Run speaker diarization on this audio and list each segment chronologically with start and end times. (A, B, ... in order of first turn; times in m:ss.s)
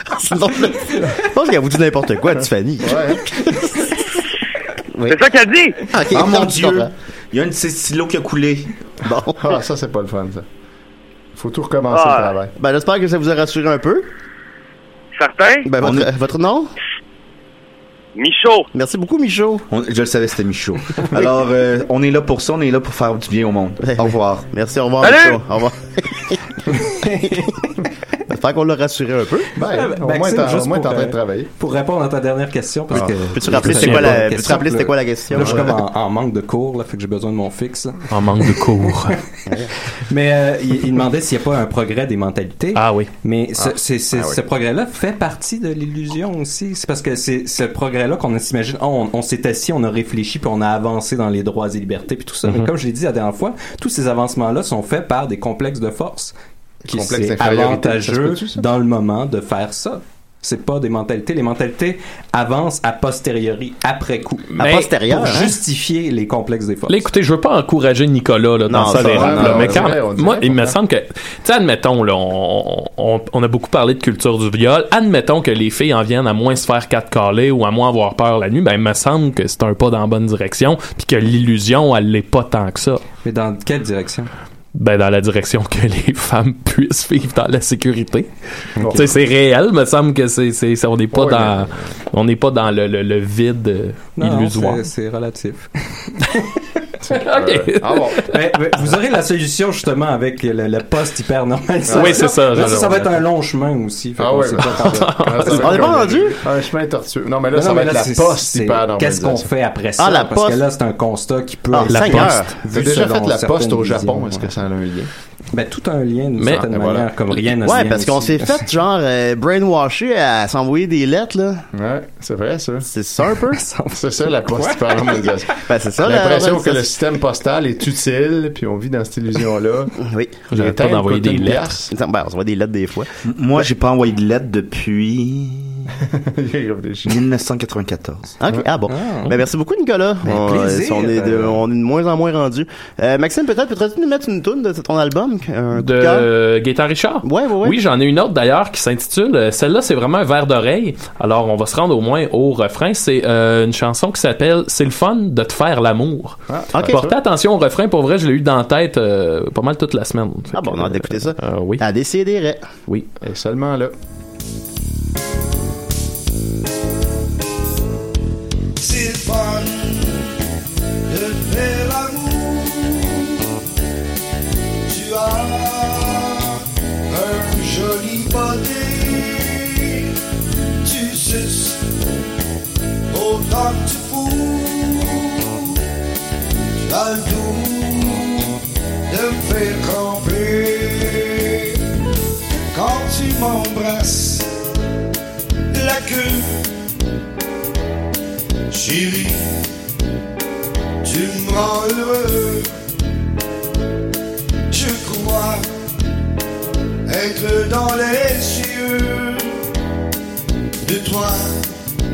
0:00.2-0:03.8 A
0:02.4-0:03.2 B
0:05.0-0:05.2 A
0:05.1-0:05.8 C
0:05.9-0:06.9 A
0:06.1-0:08.7 D
0:09.1-0:09.5 A
0:09.4-0:10.5 B
0:11.4-0:12.5 B
0:11.9-0:12.3 C
0:12.6-0:14.1 A
0:15.2-0:15.7 C
0:15.6-0:16.7 A
0:15.8-0:16.1 D
0:18.2-0:18.7 C
0:18.7-0:19.6 A
0:19.7-0:24.5 D
0:23.8-0:26.4 A
0:25.0-0:25.4 C
0:27.0-0:27.6 E
0:28.3-0:29.5 A
0:29.6-0:31.5 B
0:29.7-0:38.9 E
0:32.9-0:35.8 B
0:33.3-0:35.8 A
0:33.8-0:34.1 F
0:38.1-0:39.2 F
0:40.1-0:56.3 E
0:42.8-0:43.1 F
0:43.6-0:44.4 B
0:56.9-0:58.7 B
0:56.9-1:07.1 E
1:04.6-1:04.9 F
1:04.6-1:05.5 A
1:06.9-1:23.0 F
1:08.7-1:10.0 A
1:08.9-1:10.8 B
1:23.2-1:24.3 E
1:24.7-1:34.8 F
1:28.8-1:29.2 B
1:31.1-1:31.8 B
1:34.2-1:36.5 E
1:37.0-1:38.3 B
1:37.1-1:38.3 F
1:38.3-1:46.0 E
1:41.9-1:42.9 B
1:41.9-1:43.2 F
1:44.2-1:49.5 B
1:44.8-1:45.6 F
1:45.5-1:46.4 A
1:47.5-1:54.5 E
1:50.0-1:50.6 A
1:51.7-1:52.6 A
1:51.9-1:52.5 F
1:52.7-1:55.1 B
1:55.5-1:58.7 E
1:56.4-1:56.6 F
1:56.5-1:57.1 B
1:57.6-2:01.6 A
2:01.7-2:02.9 B
2:02.9-2:03.6 A
2:03.5-2:05.4 E
2:03.9-2:09.9 B
2:05.7-2:07.0 A
2:10.0-2:10.4 A
2:10.5-2:11.8 F
2:10.5-2:11.9 B
2:11.9-2:13.1 A
2:13.2-2:15.9 D
2:16.0-2:17.2 B
2:17.1-2:18.4 D
2:18.4-2:26.3 A
2:18.9-2:19.4 E
2:20.2-2:21.6 E
2:25.8-2:41.8 F
2:27.2-2:27.8 A
2:36.5-2:37.1 B
2:36.7-2:37.1 A
2:40.5-2:42.7 A
2:43.2-2:43.9 B
2:48.8-2:50.4 G
2:51.1-2:53.4 G
2:54.9-3:00.1 G
3:00.8-3:01.8 G
3:03.1-3:05.8 G
3:06.8-3:11.8 G
3:12.7-3:14.5 G
3:15.7-3:16.8 G
3:18.7-3:19.6 G
3:21.0-3:22.7 G
3:24.7-3:25.7 G
3:27.1-3:29.6 G
3:30.8-3:31.7 G